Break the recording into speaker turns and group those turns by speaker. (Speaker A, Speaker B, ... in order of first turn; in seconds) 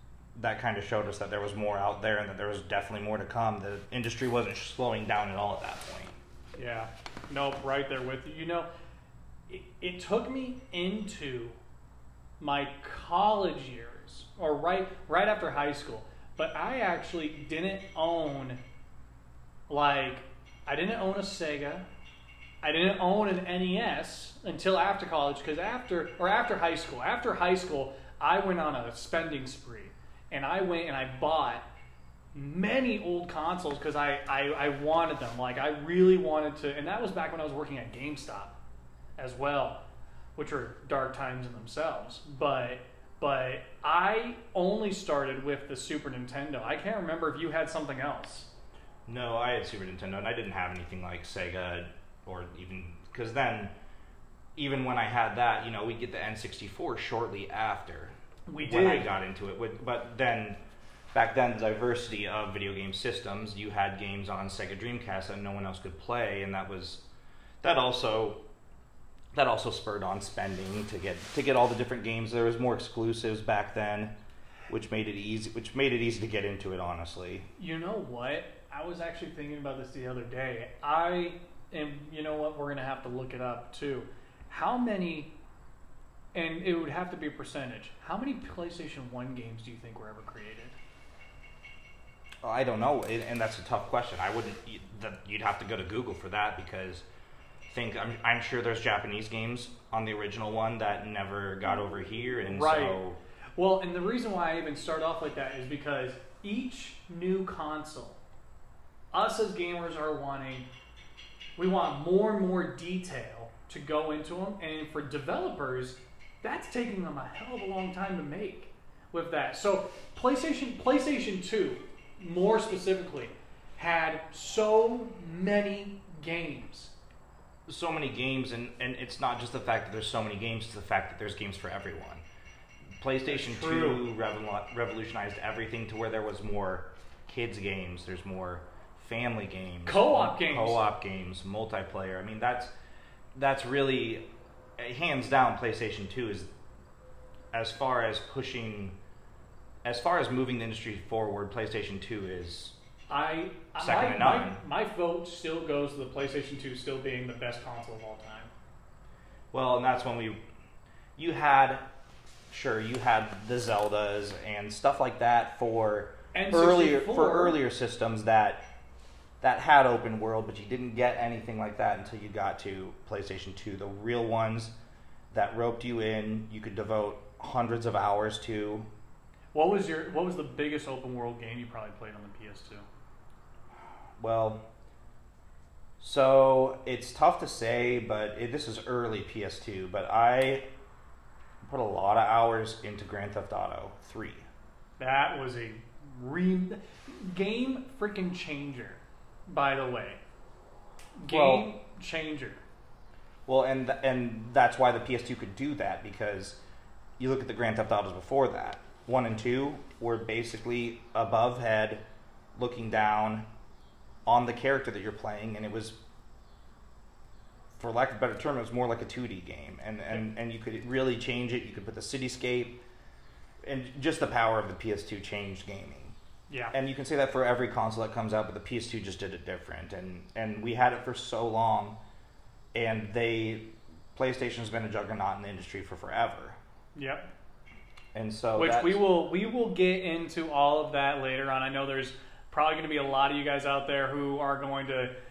Speaker A: 0.4-6.2, 49.1-53.7, 54.6-60.6, 61.1-67.0, 67.6-68.4, 69.3-74.2, 74.7-77.5, 92.4-97.0, 97.7-103.2, 127.7-132.2, 133.0-142.7, 143.3-144.2, 144.8-146.5, 147.5-149.0, 149.8-152.8, 153.8-154.6, 159.5-160.4, 161.2-161.8, 162.5-168.7, 169.4-174.7, 175.3-178.9, 184.2-184.6, 186.0-190.7, 191.6-194.4, 201.3-201.7, 203.5-206.6, 207.2-212.0, 212.6-213.5, 214.3-216.0, 217.8-222.8, 223.6-226.2, 226.7-232.0, 232.8-236.6, 238.1-239.0
Speaker B: 6.6-8.7, 9.5-11.6, 12.4-18.6, 19.7-21.9, 22.6-31.7, 32.3-38.6, 39.2-39.8, 40.4-48.5, 58.5-59.1, 77.6-85.3, 86.3-90.8, 102.5-103.0, 103.6-108.2, 109.1-110.7, 111.6-126.9, 133.3-134.1, 139.9-140.8, 153.1-158.5, 166.3-167.6, 179.5-182.8, 195.0-200.2, 201.2-202.6, 226.5-226.8, 236.9-237.3, 238.6-245.1